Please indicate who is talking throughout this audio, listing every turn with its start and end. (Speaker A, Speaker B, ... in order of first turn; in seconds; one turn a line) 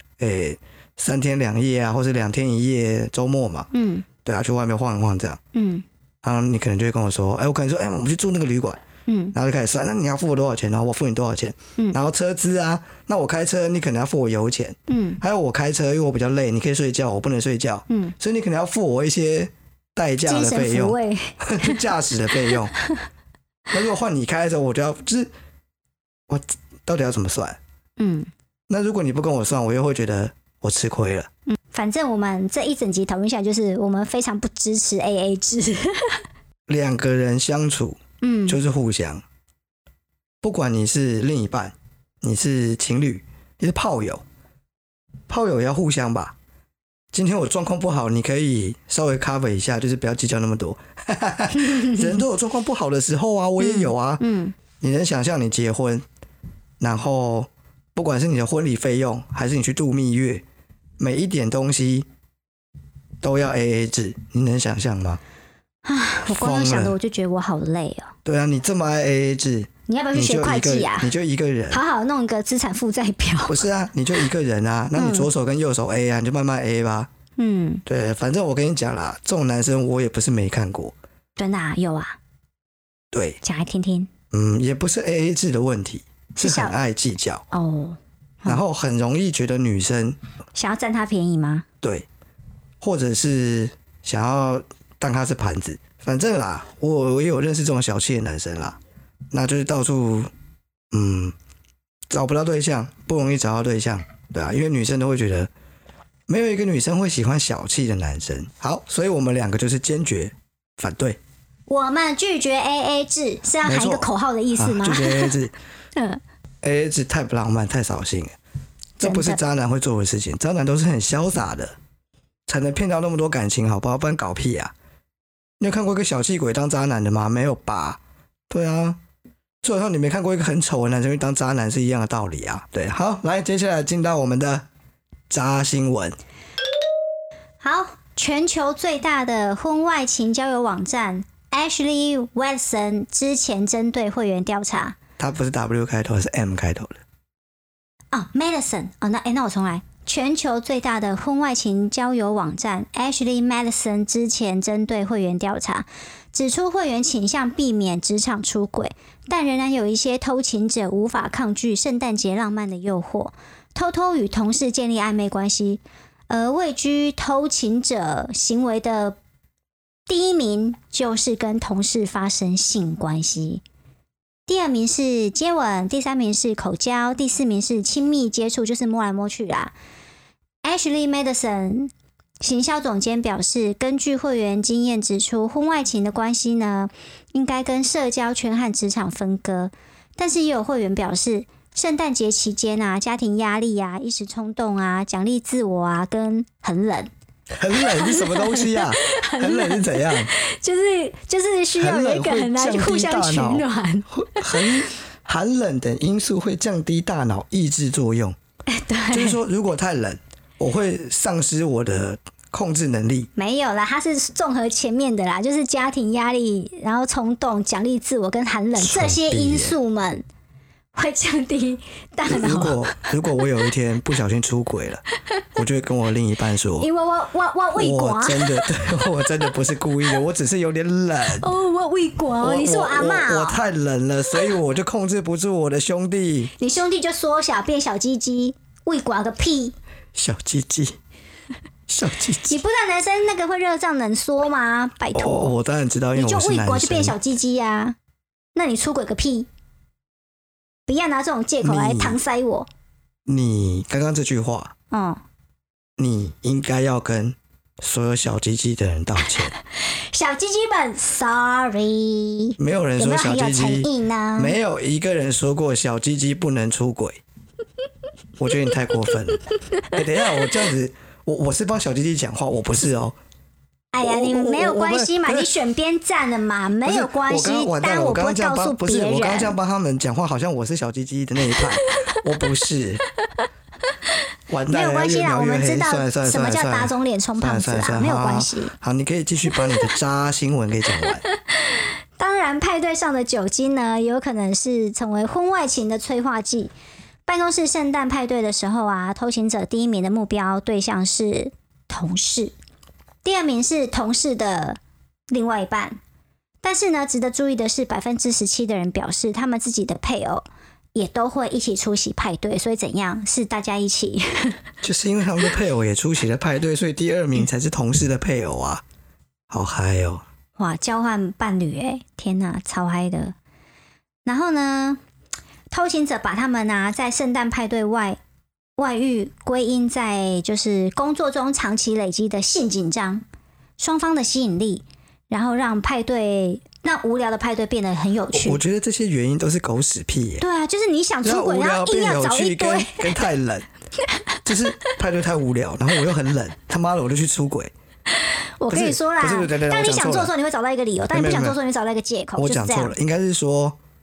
Speaker A: 0.2-3.7
Speaker B: 3.7-4.1
Speaker A: 4.2-5.4
Speaker B: 5.5-5.8
Speaker A: 6.2-8.8
Speaker B: 9.1-9.3
Speaker A: 9.3-22.7
Speaker B: 14.9-15.2
Speaker B: 17.9-18.1
Speaker B: 20.3-21.8
Speaker B: 22.5-23.0
Speaker A: 23.7-25.3
Speaker A: 26.3-27.6
Speaker B: 28.0-28.3
Speaker A: 28.7-31.3
Speaker B: 31.5-36.2
Speaker A: 36.7-39.2
Speaker B: 38.2-38.6
Speaker A: 40.4-44.2
Speaker A: 45.3-46.4
Speaker A: 47.1-54.2
Speaker B: 51.6-52.1
Speaker B: 53.6-54.5
Speaker A: 54.8-56.0
Speaker A: 56.8-60.4
Speaker A: 61.0-62.1
Speaker A: 63.2-65.2
Speaker B: 65.9-68.1
Speaker A: 66.3-67.0
Speaker A: 68.2-71.8
Speaker B: 69.9-71.1
Speaker B: 71.7-73.7
Speaker A: 73.5-77.1
Speaker B: 75.0-75.3
Speaker B: 77.4-77.8
Speaker A: 77.9-80.9
Speaker B: 81.4-82.2
Speaker A: 83.1-83.4
Speaker B: 83.4-84.1
Speaker A: 84.3-87.4
Speaker B: 86.4-86.8
Speaker B: 87.5-88.6
Speaker A: 88.5-90.2
Speaker B: 90.5-91.7
Speaker A: 91.8-92.1
Speaker A: 92.8-98.8
Speaker A: 99.3-100.3
Speaker A: 100.9-101.3
Speaker A: 102.1-105.5
Speaker A: 106.3-111.2
Speaker B: 111.7-115.3
Speaker A: 113.6-115.5
Speaker A: 116.6-118.3
Speaker B: 119.0-119.4
Speaker A: 119.0-121.8
Speaker A: 122.5-124.7
Speaker A: 125.6-129.0
Speaker A: 129.6-134.7
Speaker A: 135.3-136.2
Speaker B: 137.6-145.0
Speaker A: 145.2-147.0
Speaker B: 148.1-169.2
Speaker B: 170.1-173.6
Speaker B: 174.5-179.8
Speaker B: 180.6-197.1
Speaker A: 197.6-200.3
Speaker B: 197.7-204.9
Speaker A: 201.8-208.4
Speaker B: 208.7-209.4
Speaker A: 209.1-213.3
Speaker B: 213.4-220.2
Speaker A: 218.8-219.8
Speaker B: 220.9-223.7
Speaker A: 222.3-225.0
Speaker A: 225.6-226.9
Speaker B: 226.8-229.6
Speaker A: 227.8-231.5
Speaker B: 231.3-233.6
Speaker A: 232.4-236.5
Speaker B: 236.6-239.8
Speaker A: 240.2-241.0
Speaker A: 241.9-242.6
Speaker B: 242.4-245.5
Speaker A: 245.2-247.2
Speaker B: 246.2-248.0
Speaker B: 248.6-249.5
Speaker B: 250.9-252.7
Speaker A: 251.6-252.2
Speaker A: 253.3-254.7
Speaker B: 254.9-255.2
Speaker A: 256.0-259.5
Speaker B: 259.9-264.6
Speaker A: 262.6-267.2
Speaker A: 268.4-273.2
Speaker B: 273.9-279.6
Speaker A: 274.0-275.5
Speaker A: 276.8-283.0
Speaker B: 281.5-282.1
Speaker A: 284.5-291.2
Speaker B: 284.7-288.7
Speaker B: 291.1-296.7
Speaker B: 297.3-302.5
Speaker B: 303.2-304.8
Speaker B: 305.3-306.0
Speaker B: 306.6-314.6
Speaker A: 314.8-318.8
Speaker A: 319.5-320.2
Speaker B: 320.6-323.4
Speaker B: 324.2-325.0
Speaker B: 325.7-328.2
Speaker B: 328.8-333.2
Speaker B: 333.8-338.6
Speaker A: 338.3-340.4
Speaker B: 340.4-343.2
Speaker A: 341.2-343.7
Speaker B: 344.1-344.9
Speaker A: 344.4-347.7
Speaker B: 348.2-352.9
Speaker A: 348.7-350.3
Speaker A: 351.1-351.6
Speaker A: 352.4-353.8